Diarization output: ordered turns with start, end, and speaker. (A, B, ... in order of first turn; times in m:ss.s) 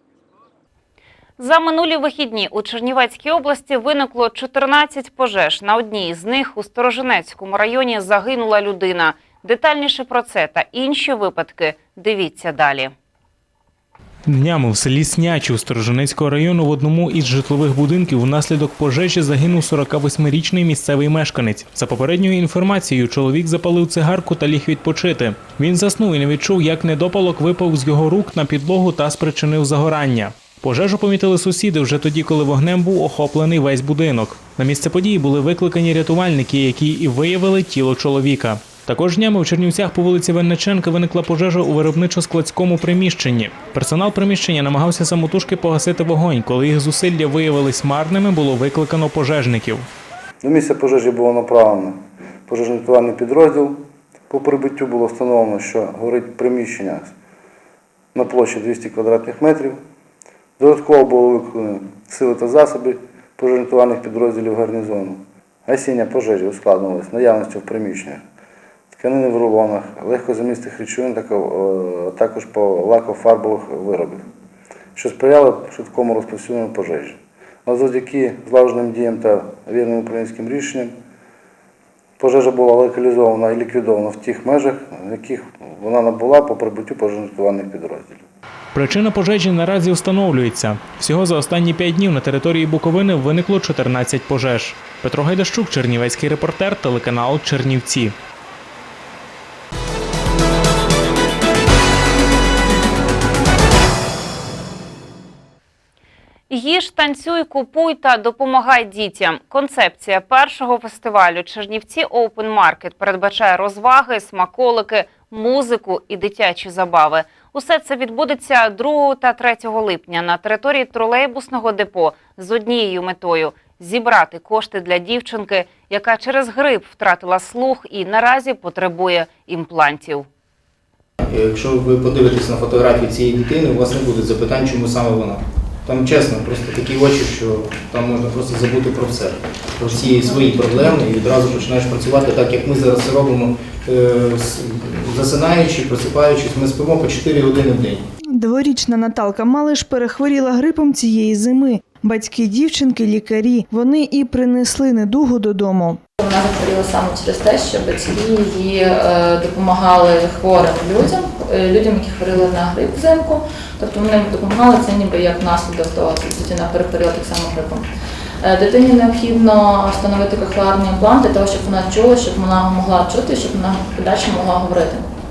0:01.4-0:12.9 A
0:14.3-0:49.9 B
0:50.4-0:57.1 C
0:58.1-0:59.8 C
1:00.6-1:08.2 C
1:08.9-1:14.2 C
1:14.9-1:20.9 C
1:22.2-1:28.2 C
1:28.7-1:38.1 B
1:46.5-2:10.3 A
2:11.2-2:28.1 D
2:28.3-2:36.0 E
2:36.2-2:47.9 F
2:48.4-2:55.1 F